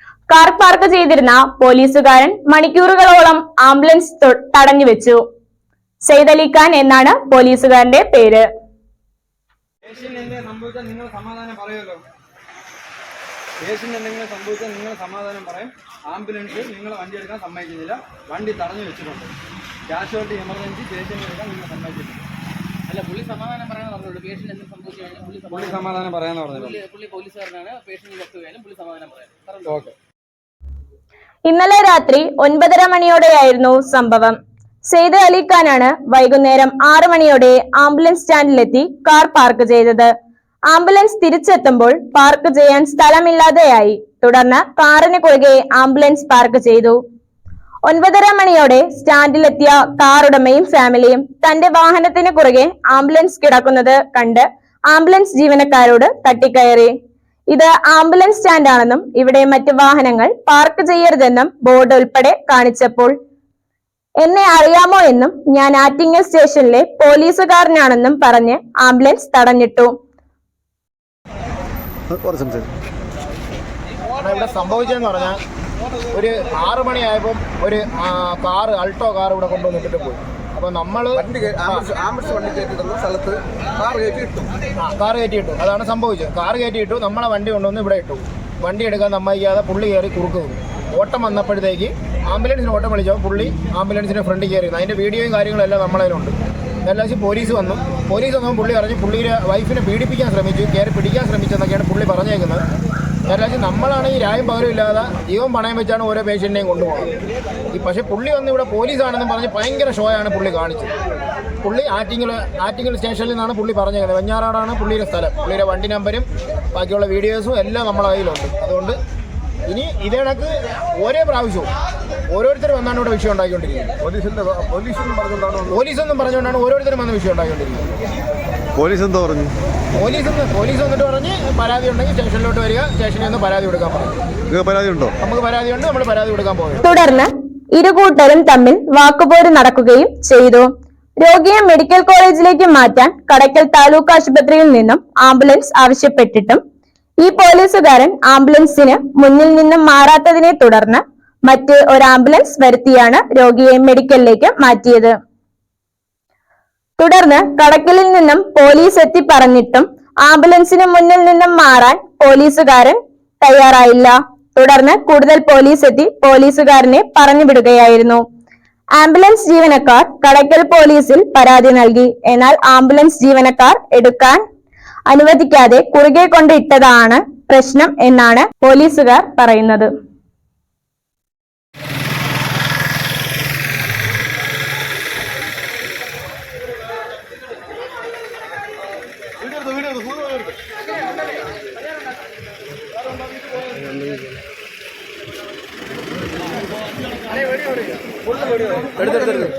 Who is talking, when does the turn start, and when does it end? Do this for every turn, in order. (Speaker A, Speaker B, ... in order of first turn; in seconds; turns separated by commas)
Speaker A: 0.3-5.2, Speaker A: 6.0-8.5, Speaker B: 9.8-12.1, Speaker B: 13.6-19.3, Speaker B: 19.9-22.2, Speaker C: 22.9-25.9, Speaker B: 25.5-26.8, Speaker C: 26.5-29.7, Speaker B: 29.7-29.9, Speaker A: 31.4-40.1, Speaker A: 40.7-47.0, Speaker A: 47.9-56.9, Speaker A: 57.5-63.1, Speaker A: 64.2-69.9, Speaker D: 72.2-72.7, Speaker E: 74.2-75.4, Speaker E: 76.1-82.0, Speaker D: 82.0-84.5, Speaker E: 84.8-102.6, Speaker E: 103.3-107.1, Speaker E: 107.7-110.9, Speaker E: 111.6-119.0, Speaker E: 119.7-121.7, Speaker E: 122.3-123.9, Speaker D: 124.1-125.6, Speaker E: 125.7-127.9, Speaker D: 128.8-129.5, Speaker E: 130.0-134.1, Speaker D: 134.5-135.1, Speaker E: 135.2-136.8, Speaker A: 136.8-140.7, Speaker A: 141.2-146.6, Speaker A: 147.2-155.1, Speaker A: 157.0-168.2, Speaker A: 168.9-174.4, Speaker A: 175.1-179.9, Speaker C: 199.1-199.4